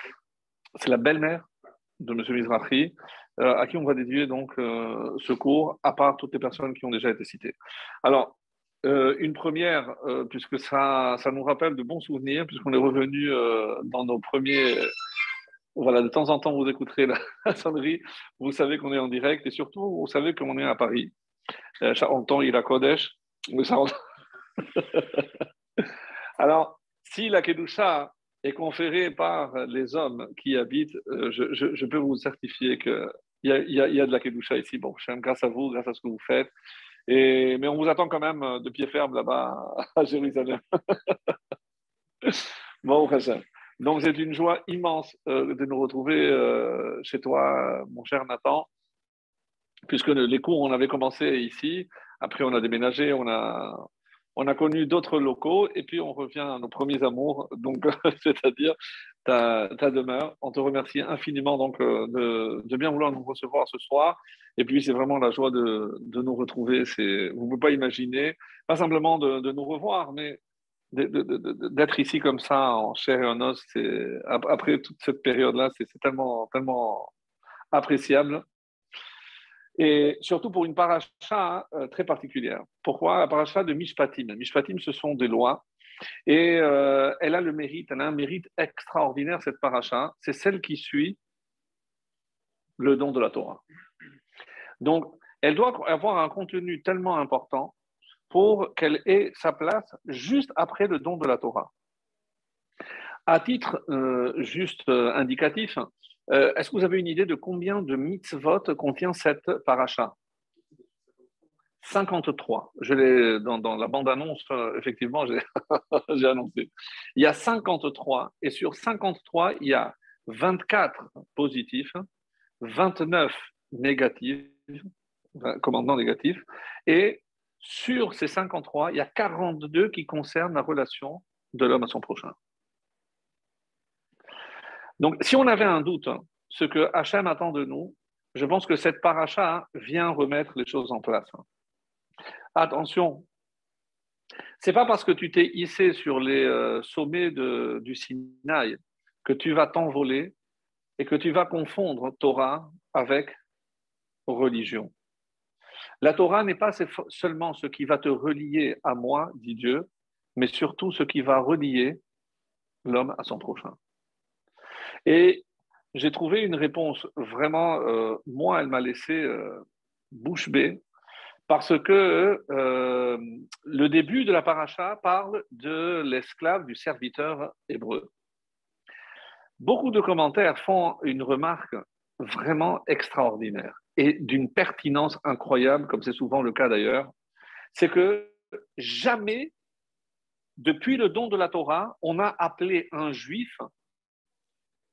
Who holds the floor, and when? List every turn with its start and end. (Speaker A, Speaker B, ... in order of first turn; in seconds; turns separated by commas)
Speaker A: 0.8-1.5, Speaker A: 2.0-14.9, Speaker A: 15.8-21.1, Speaker A: 21.8-24.0, Speaker A: 24.7-25.3, Speaker A: 26.4-36.5, Speaker A: 37.1-41.2, Speaker A: 42.2-48.7, Speaker A: 49.9-70.4, Speaker A: 70.9-77.1, Speaker A: 77.7-78.5, Speaker A: 79.8-85.7, Speaker A: 86.3-91.2, Speaker A: 92.8-93.6, Speaker A: 94.8-97.7, Speaker A: 98.3-101.7, Speaker A: 103.3-110.1, Speaker A: 111.8-122.1, Speaker A: 122.6-132.4, Speaker A: 135.0-141.4, Speaker A: 142.6-143.3, Speaker A: 144.6-150.3, Speaker A: 151.0-153.4, Speaker A: 154.3-154.9, Speaker A: 156.0-162.0, Speaker A: 162.8-163.8, Speaker A: 165.1-170.8, Speaker A: 171.5-178.1, Speaker A: 179.6-187.1, Speaker A: 187.7-189.5, Speaker A: 190.6-193.7